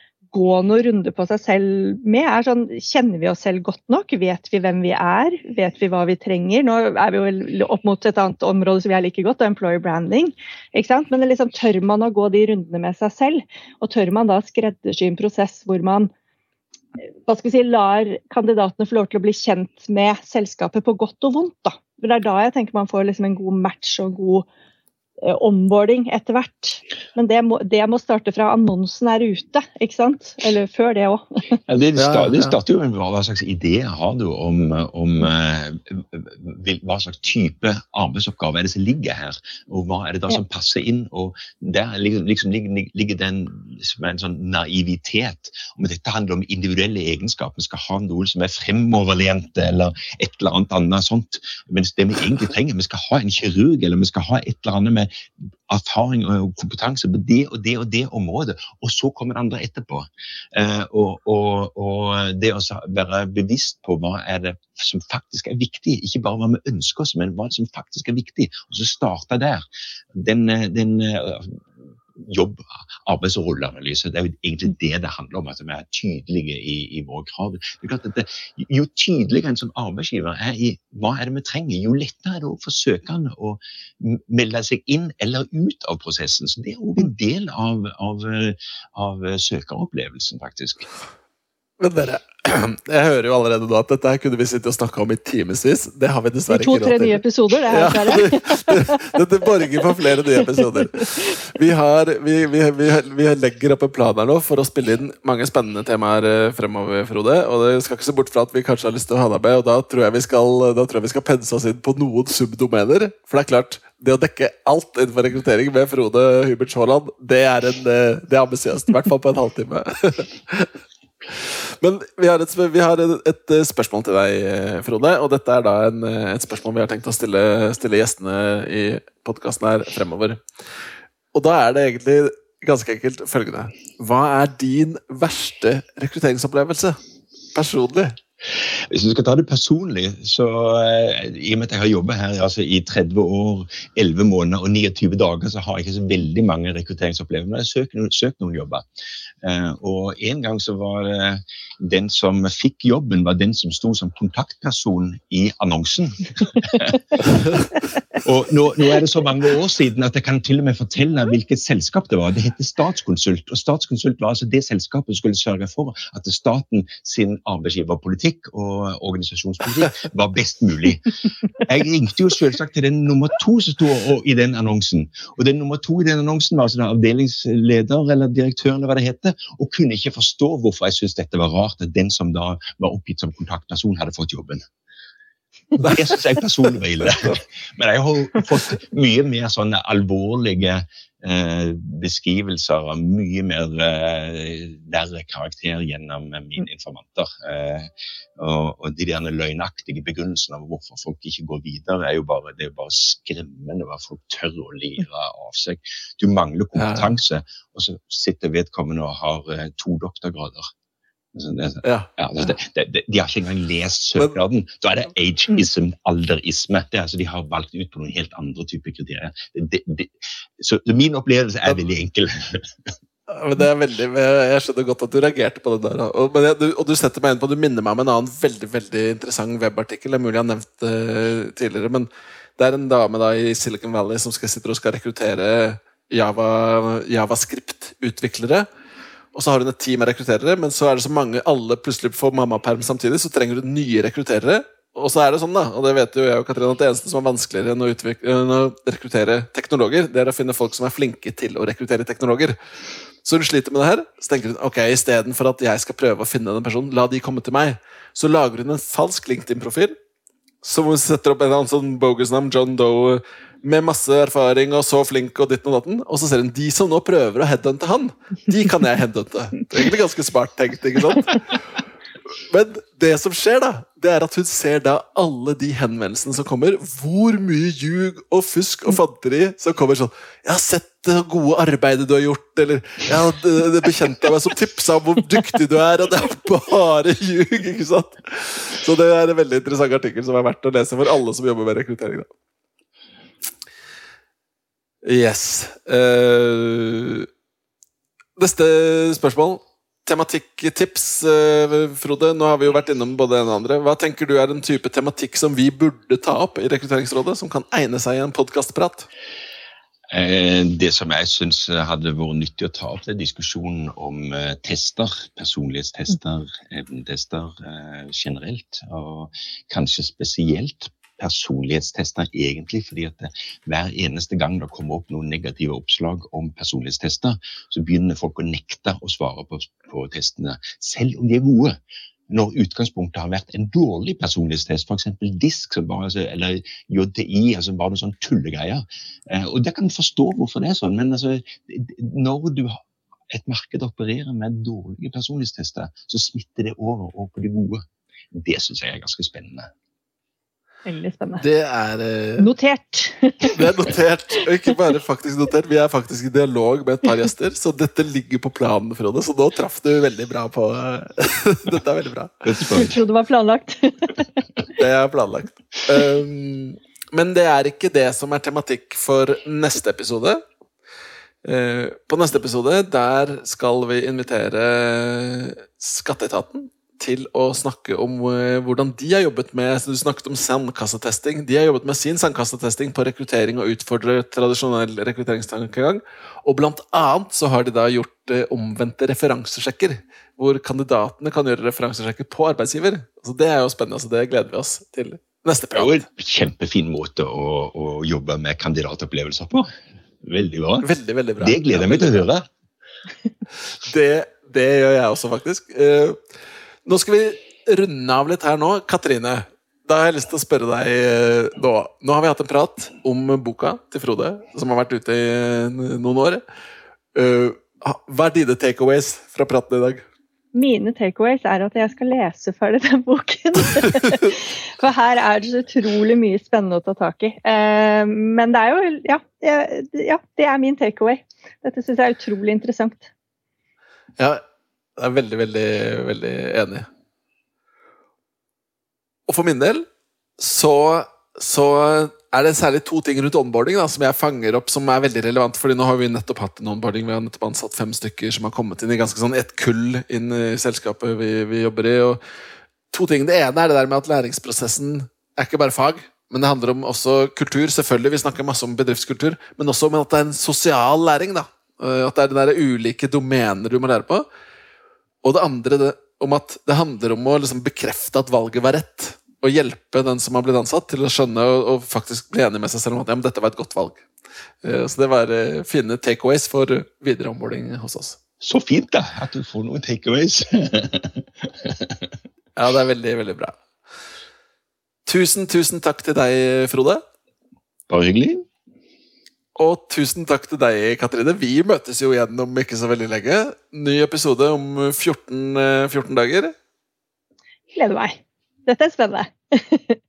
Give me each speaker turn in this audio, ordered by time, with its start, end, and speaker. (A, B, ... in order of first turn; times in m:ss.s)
0:00.3-0:16.1 A
0:17.3-0:24.5 A
0:25.2-0:31.6 A
0:31.7-1:30.9 B
0:32.0-0:32.6 C
1:31.8-2:00.7 C
1:36.5-1:39.0 A
1:40.4-1:40.6 A
2:01.3-2:10.4 C
2:11.3-2:17.0 C
2:17.5-2:18.2 C
2:18.8-2:28.8 B
2:29.4-2:37.4 B
2:38.2-3:04.6 B
3:05.8-3:30.7 B
3:05.8-3:06.1 C
3:26.8-3:27.2 C
3:31.3-3:42.9 B
3:31.8-3:32.1 C
3:43.3-3:58.7 C
3:59.3-4:12.6 C
4:13.2-4:20.0 C
4:20.6-4:31.6 C
4:32.5-4:52.3 C
4:55.0-4:57.3 C
4:58.4-5:09.1 C
5:10.1-5:31.8 B
5:32.3-5:49.7 B
5:50.9-5:51.4 A
5:51.4-5:52.5 C
5:52.4-5:53.6 A
5:53.5-6:02.3 C
6:02.4-6:03.0 B
6:02.7-6:04.4 A
6:04.8-6:10.4 C
6:11.4-6:36.0 C
6:35.8-6:39.7 B
6:40.2-6:40.9 B
6:40.8-6:42.3 C
6:41.4-6:42.5 B
6:43.7-6:46.2 C
6:46.8-6:56.4 C
6:57.2-7:00.0 C
7:00.5-7:13.1 A
7:15.0-7:16.9 C
7:19.3-7:19.9 C
7:20.4-7:32.2 C
7:32.9-7:44.3 C
7:45.2-7:54.0 C
7:54.6-7:58.2 C
7:58.4-8:02.1 B
8:02.6-8:03.6 C
8:05.1-8:07.0 C
8:07.9-8:08.4 B
8:09.6-8:16.5 C
8:17.7-8:20.0 A